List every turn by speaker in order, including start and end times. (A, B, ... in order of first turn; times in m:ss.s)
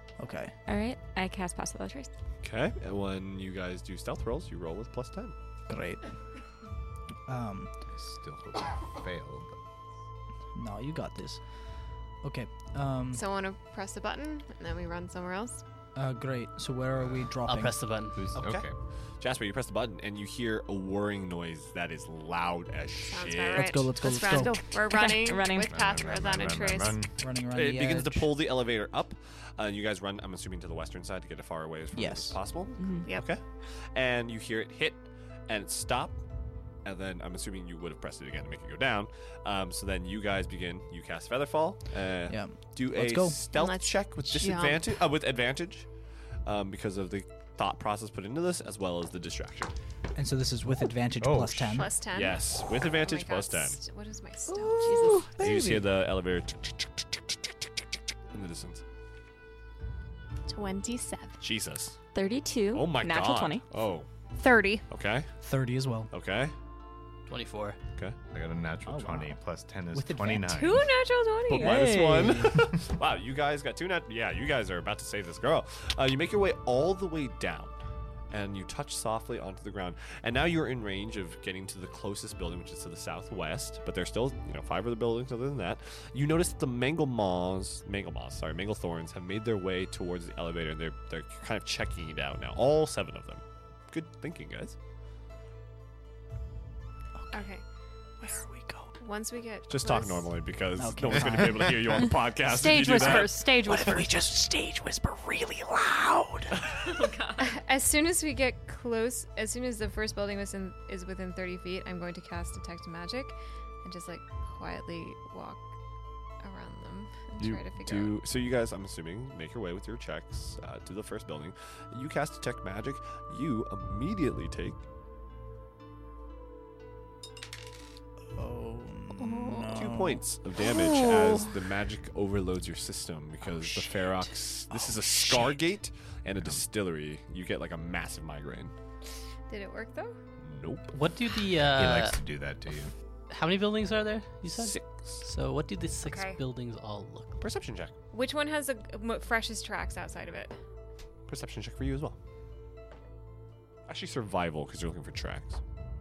0:00.2-0:00.6 A
0:00.7-0:02.1 B
0:02.4-0:05.4 C
0:05.7-0:06.2 A
0:07.3-0:07.7 A
0:07.9-0:09.6 D
0:10.6-0:11.6 A
0:12.2-0:13.2 A
0:13.1-0:15.6 E
0:16.0-0:17.8 A
0:17.0-0:17.4 D
0:17.4-0:18.2 F
0:18.2-0:18.7 D
0:18.3-0:23.8 C
0:23.1-0:27.0 E
0:23.6-0:24.6 A
0:24.1-0:25.1 G
0:24.9-0:25.8 B
0:25.7-0:27.1 D
0:27.2-0:28.3 A
0:27.5-0:36.2 C
0:31.9-0:32.4 A
0:32.8-0:33.1 B
0:36.8-0:45.9 C
0:42.3-0:43.4 A
0:43.5-0:44.9 E
0:46.4-0:49.7 C
0:50.2-0:51.9 A
0:51.2-0:51.9 D
0:51.7-0:55.2 E
0:52.1-0:53.8 C
0:54.5-0:55.9 A
0:55.4-0:57.6 C
0:58.3-0:58.8 C
1:00.5-1:01.3 E
1:01.4-1:02.0 C
1:02.1-1:03.6 B
1:02.7-1:04.1 C
1:04.4-1:04.8 G
1:04.9-1:05.3 C
1:05.4-1:06.1 A
1:06.1-1:06.5 C
1:07.3-1:07.8 F
1:08.3-1:10.9 D
1:08.9-1:09.4 A
1:09.9-1:10.6 A
1:10.5-1:11.8 E
1:11.5-1:17.8 C
1:11.5-1:12.7 A
1:18.3-1:34.8 C
1:37.2-1:37.4 A
1:37.3-1:37.6 E
1:38.2-1:39.0 A
1:39.0-1:40.3 E
1:39.7-1:43.4 C
1:40.8-1:42.1 A
1:42.4-1:44.1 G
1:43.0-1:46.7 A
1:46.7-1:47.6 B
1:47.4-1:55.6 E
1:56.4-1:58.2 E
1:57.4-2:04.8 C
2:08.3-2:10.2 A
2:09.7-2:18.7 C
2:13.4-2:15.6 A
2:19.5-2:20.2 E
2:20.4-2:21.0 C
2:20.9-2:22.2 F
2:21.6-2:22.9 D
2:23.3-2:27.4 F
2:24.5-2:25.3 C
2:26.0-2:26.4 E
2:27.4-2:27.9 C
2:28.1-2:30.6 E
2:31.3-2:32.2 C
2:33.9-2:35.6 C